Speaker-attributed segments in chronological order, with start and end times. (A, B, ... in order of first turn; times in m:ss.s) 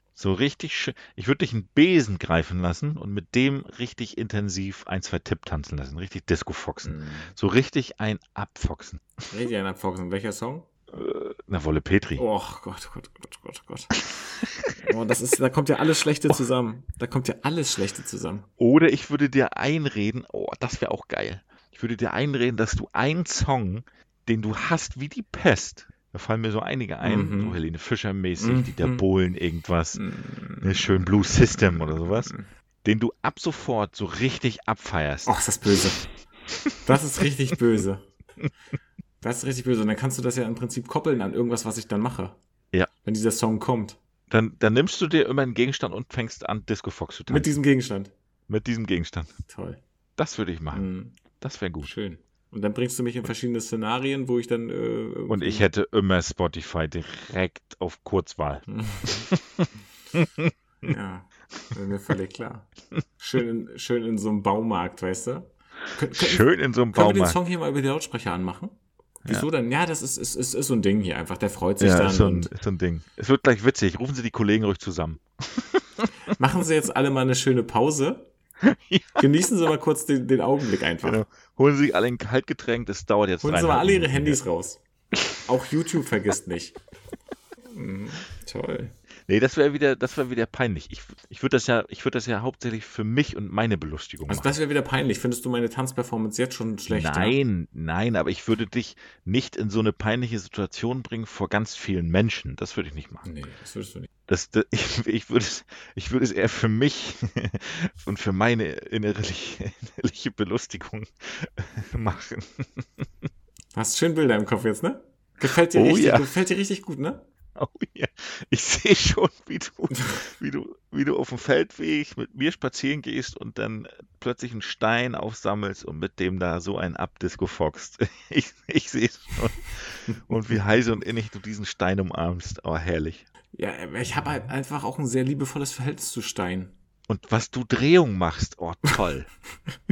0:00.2-0:09.0 A
0:06.8-0:07.3 B
0:09.3-0:10.7 B
0:10.9-0:12.2 A
0:12.2-0:14.0 B
0:14.2-0:14.7 A
0:14.8-0:18.5 B
0:18.6-0:30.0 A
0:27.0-0:27.6 B
0:28.4-0:29.0 B
0:29.9-0:31.0 B
0:30.6-0:35.8 A
0:32.0-0:32.4 B
0:35.2-0:36.0 B
0:36.5-0:36.8 A
0:36.8-0:38.1 B
0:39.2-0:42.4 B
0:43.0-0:44.0 B
0:44.3-0:47.5 A
0:47.3-0:48.1 B
0:48.5-0:49.3 A
0:49.5-0:49.8 B
0:50.2-0:50.9 A
0:50.7-0:51.2 B
0:51.4-0:51.9 A
0:51.8-0:55.6 B
0:55.3-1:00.5 A
0:58.7-0:59.3 B
1:00.8-1:12.5 B
1:06.1-1:07.4 A
1:11.8-1:16.1 A
1:16.3-1:18.3 B
1:18.6-1:19.2 A
1:19.2-1:21.2 B
1:21.0-1:24.4 A
1:23.4-1:24.8 B
1:25.4-1:26.8 B
1:27.7-1:28.9 B
1:29.3-1:34.5 A
1:34.3-1:37.4 B
1:36.9-1:43.2 A
1:43.2-1:44.1 B
1:44.3-1:53.2 A
1:53.7-1:57.2 B
1:55.7-1:56.3 A
1:57.6-2:13.2 A
2:13.5-2:16.7 B
2:17.1-2:19.3 A